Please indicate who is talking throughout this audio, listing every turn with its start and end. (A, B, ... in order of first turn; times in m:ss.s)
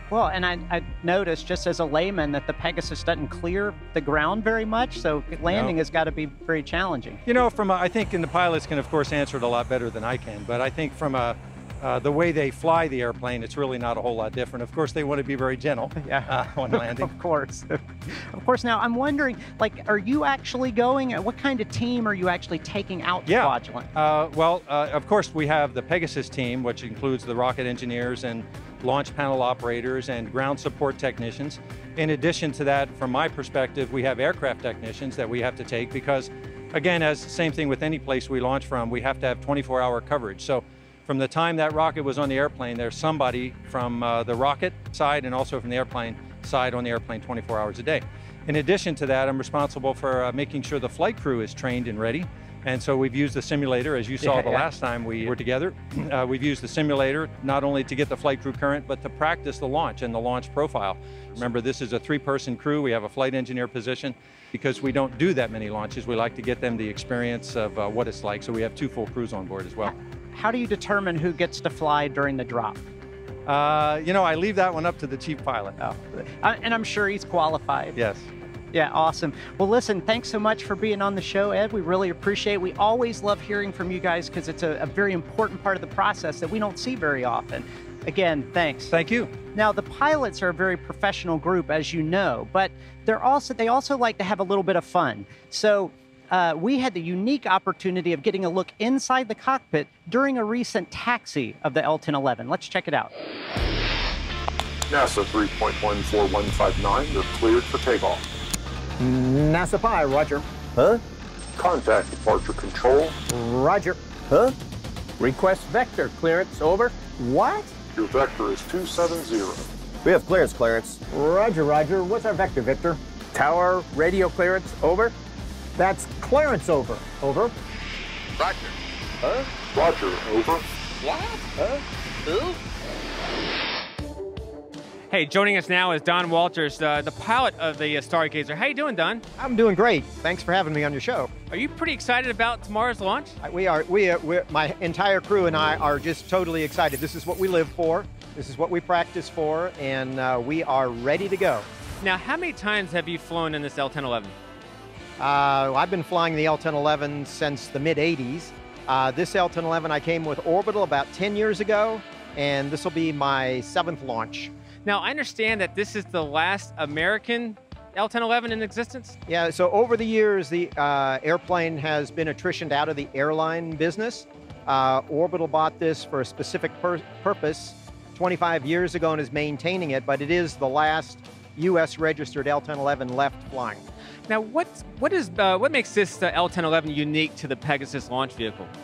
0:00.1-0:07.2 A
0:05.5-0:05.8 B
0:07.2-0:17.1 B
0:16.0-0:23.9 A
0:23.3-1:09.9 B
0:54.2-0:54.7 A
1:09.8-1:12.8 A
1:13.5-1:15.8 B
1:15.8-1:18.0 A
1:18.0-1:18.3 B
1:18.7-1:28.9 A
1:28.9-1:29.3 B
1:29.5-1:43.1 A
1:44.9-1:48.2 C
1:49.0-1:51.0 D
1:51.6-1:53.2 C
1:53.3-1:54.5 D
1:55.2-1:57.7 D
1:58.0-1:59.7 C
2:00.0-2:05.1 D
2:05.8-2:07.5 D
2:08.4-2:08.7 C
2:09.7-2:11.3 C
2:15.1-2:19.2 E
2:19.4-2:21.3 F
2:21.5-2:23.4 E
2:23.4-2:31.7 F
2:32.0-2:34.4 E
2:35.2-2:44.5 F
2:44.8-2:49.2 E
2:49.3-3:03.8 F
3:04.3-3:08.7 E